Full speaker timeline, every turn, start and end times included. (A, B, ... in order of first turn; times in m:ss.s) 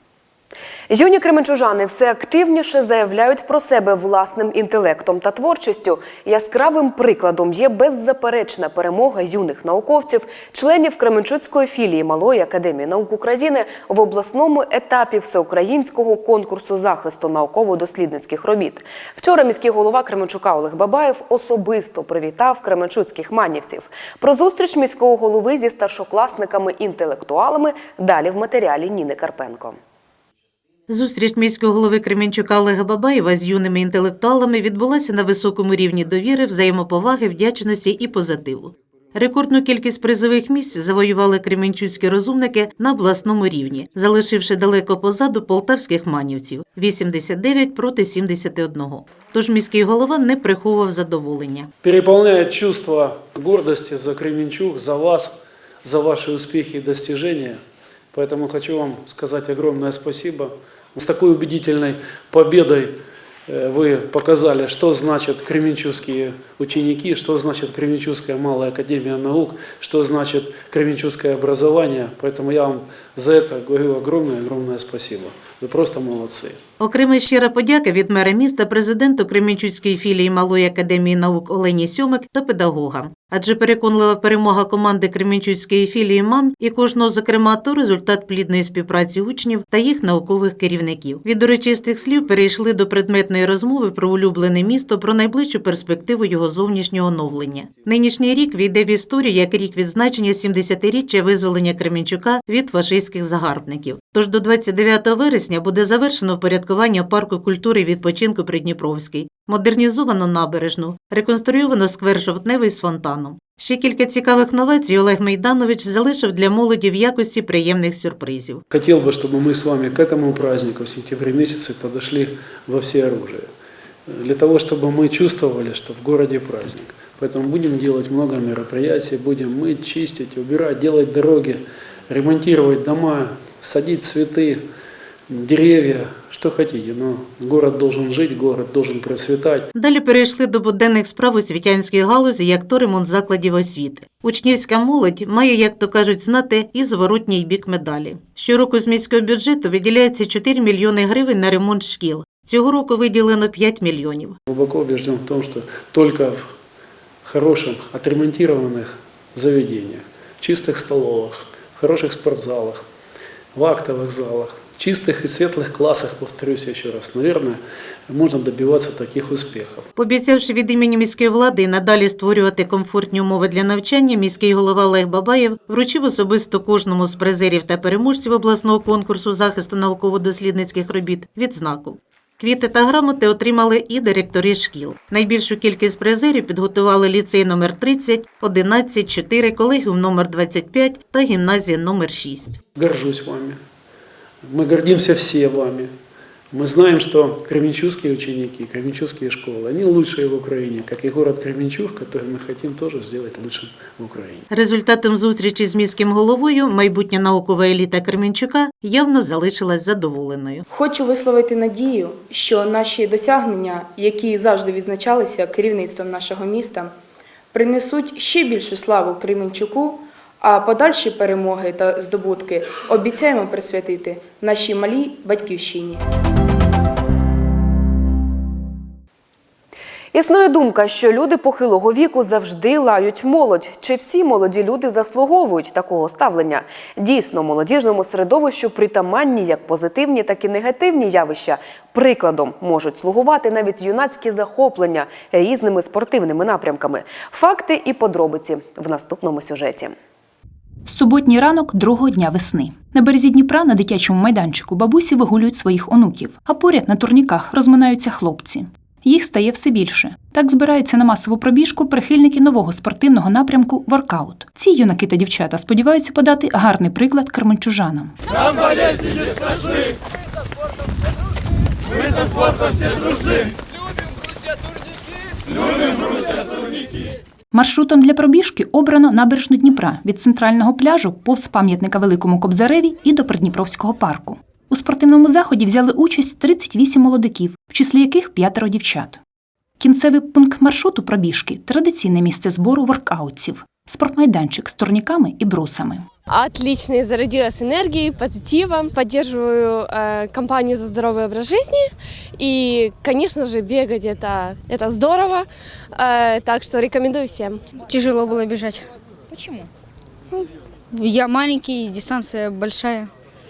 0:00.9-0:29.8 A
0:30.9-0:51.7 B
0:51.8-0:57.6 C
0:58.1-1:02.9 C
1:03.5-1:16.6 C
1:16.8-1:58.6 B
1:58.7-2:03.5 C
2:04.1-2:14.6 C
2:15.3-2:19.7 C
2:19.8-2:34.4 B
2:34.5-2:36.5 C
2:37.2-2:42.8 C
2:43.5-2:49.8 C
2:50.0-3:12.6 B
3:12.7-3:13.6 C
3:14.4-3:15.9 C
3:16.5-3:24.4 C
3:24.5-3:30.6 B
3:30.7-3:36.9 D
3:37.5-3:46.0 D
3:50.1-4:09.9 A
4:10.8-4:28.2 E
4:37.5-4:49.2 E
4:49.8-4:56.0 E
4:56.3-5:07.6 F
5:07.7-5:08.9 G
5:10.9-5:13.1 G